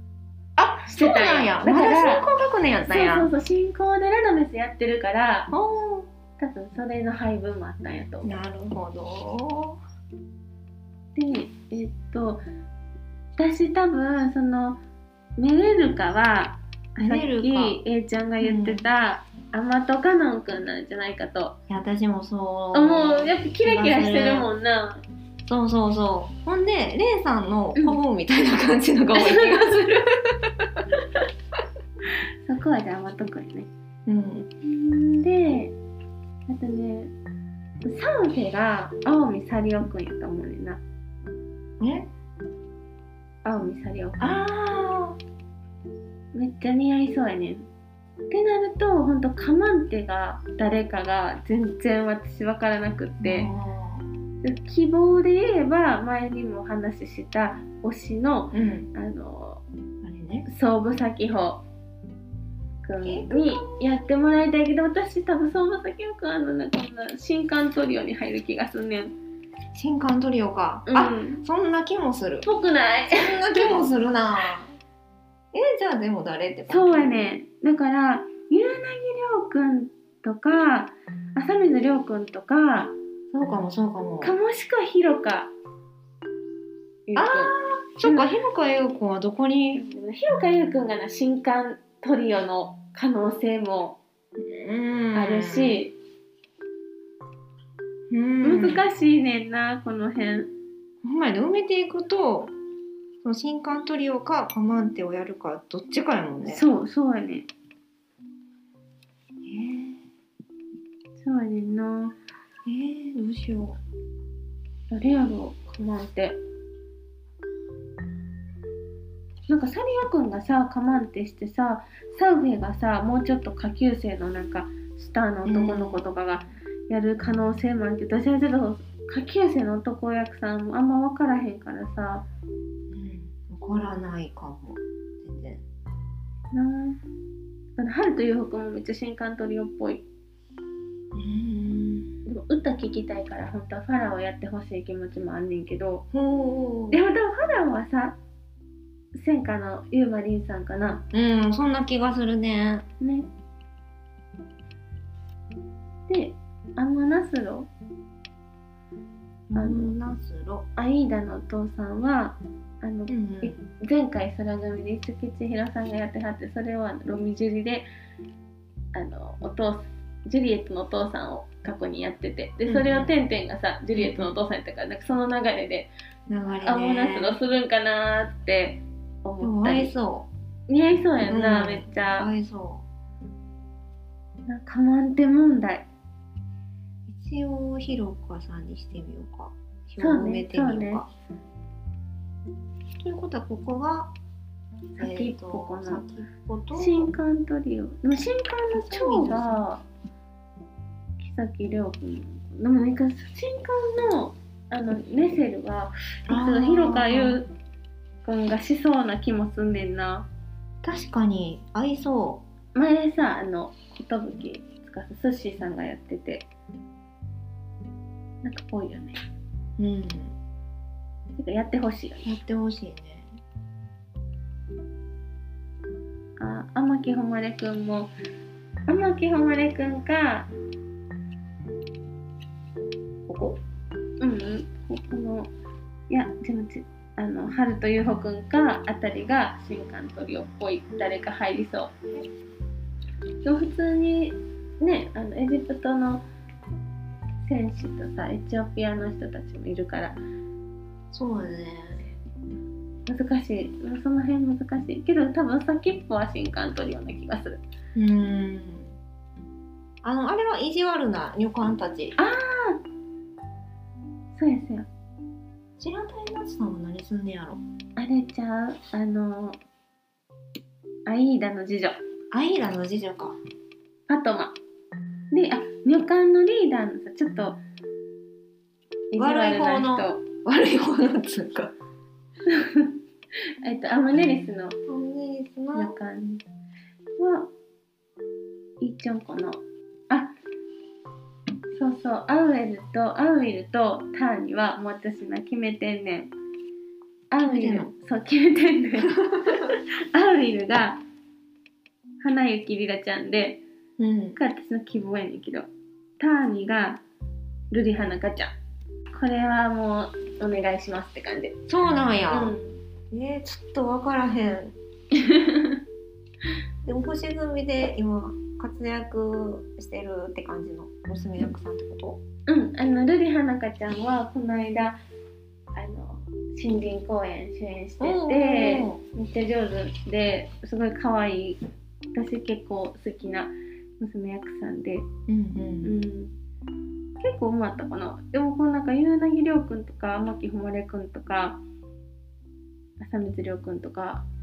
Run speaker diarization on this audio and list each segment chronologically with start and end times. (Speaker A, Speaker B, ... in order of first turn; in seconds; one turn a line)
Speaker A: 0.6-3.3
Speaker B: 0.8-2.3
Speaker B: 2.9-5.5
Speaker A: 5.5-6.1
Speaker B: 6.4-8.3
Speaker A: 8.2-9.8
Speaker B: 11.1-12.4
Speaker B: 13.4-14.8
Speaker B: 15.4-21.5
Speaker A: 17.0-17.8
Speaker A: 18.4-18.8
Speaker A: 21.7-24.5
Speaker B: 22.7-25.0
Speaker A: 25.4-30.1
Speaker B: 29.1-30.0
Speaker B: 32.4-33.7
Speaker A: 34.0-34.5
Speaker B: 34.6-35.7
Speaker B: 36.5-37.1
Speaker B: 37.8-40.8
Speaker A: 41.8-42.1
Speaker B: 43.4-44.4
Speaker A: 44.2-45.2
Speaker B: 46.3-47.7
Speaker B: 48.3-53.5
Speaker A: 53.2-54.1
Speaker B: 54.4-59.6
Speaker A: 58.5-58.9
Speaker A: 60.0-60.5
Speaker B: 60.5-61.6
Speaker B: 62.8-69.1
Speaker A: 63.0-64.0
Speaker A: 69.7-72.5
Speaker B: 70.9-71.4
Speaker B: 72.4-73.8
Speaker A: 73.1-74.7
Speaker A: 75.5-77.2
Speaker B: 76.7-82.9
Speaker A: 83.3-84.3
Speaker B: 84.2-85.5
Speaker B: 87.1-88.3
Speaker A: 87.1-89.8
Speaker B: 89.7-94.0
Speaker A: 94.4-95.8
Speaker B: 95.1-95.9
Speaker A: 98.1-98.8
Speaker B: 98.4-100.5
Speaker A: 101.0-102.5
Speaker A: 103.2-106.6
Speaker B: 106.5-107.5
Speaker A: 109.5-110.0
Speaker B: 111.2-112.1
Speaker A: 112.7-113.8
Speaker B: 114.9-116.4
Speaker B: 119.5-132.2
Speaker A: 125.4-126.0
Speaker A: 132.9-135.6
Speaker B: 136.5-137.0
Speaker B: 137.8-140.0
Speaker A: 141.1-142.1
Speaker B: 142.2-146.0
Speaker A: 146.1-147.0
Speaker B: 146.9-148.2
Speaker B: 149.1-151.0
Speaker A: 151.1-152.8
Speaker B: 153.0-153.3
Speaker B: 156.1-157.7
Speaker A: 159.5-160.6
Speaker B: 159.5-159.9
Speaker B: 160.8-167.8
Speaker A: 163.1-163.6
Speaker B: 168.9-175.9
Speaker A: 172.6-173.1
Speaker A: 173.9-174.3
Speaker A: 176.3-177.4
Speaker B: 176.6-179.9
Speaker A: 179.4-180.3
Speaker B: 180.7-182.3
Speaker A: 181.2-182.8
Speaker B: 184.5-185.9
Speaker A: 187.1-191.1
Speaker B: 190.0-191.0
Speaker A: 193.0-194.1
Speaker B: 194.9-196.0
Speaker A: 195.0-197.1
Speaker B: 196.7-199.8
Speaker A: 198.7-199.8
Speaker B: 201.2-207.5
Speaker A: 206.3-207.4
Speaker B: 208.2-210.3
Speaker A: 210.8-212.4
Speaker B: 212.7-216.5
Speaker B: 218.4-219.1
Speaker A: 219.8-220.3
Speaker B: 221.3-222.3
Speaker A: 222.2-223.3
Speaker B: 226.4-228.1
Speaker B: 228.9-230.5
Speaker A: 233.3-233.6
Speaker B: 234.2-235.5
Speaker B: 236.1-241.9
Speaker B: 243.4-246.2
Speaker B: 247.4-250.2
Speaker A: 251.1-252.0
Speaker B: 253.1-257.6
Speaker A: 257.9-258.9
Speaker A: 260.0-262.2
Speaker B: 262.2-262.8
Speaker B: 264.4-264.9
Speaker A: 265.8-267.6
Speaker B: 267.9-269.6
Speaker B: 271.1-272.0
Speaker A: 272.3-273.4
Speaker B: 274.1-274.6
Speaker B: 275.3-277.6
Speaker B: 279.1-280.2
Speaker A: 279.1-281.7
Speaker B: 282.5-283.0
Speaker B: 283.6-284.8
Speaker A: 284.9-285.9
Speaker B: 285.7-286.4
Speaker B: 287.2-287.5
Speaker B: 288.8-290.3
Speaker B: 291.7-296.3
Speaker B: 297.3-301.0
Speaker A: 297.4-297.9
Speaker B: 302.2-303.6
Speaker A: 304.0-304.4
Speaker B: 304.4-305.7
Speaker B: 306.2-307.0
Speaker B: 307.7-308.5
Speaker B: 309.1-311.5
Speaker A: 311.7-312.6
Speaker B: 312.3-312.7
Speaker A: 313.1-314.7
Speaker B: 315.1-315.8
Speaker A: 316.8-322.2
Speaker B: 322.5-325.0
Speaker B: 325.7-331.6
Speaker A: 328.0-329.0
Speaker B: 332.1-335.1
Speaker A: 335.3-335.9
Speaker B: 335.8-336.3
Speaker B: 337.2-341.6
Speaker B: 343.0-344.2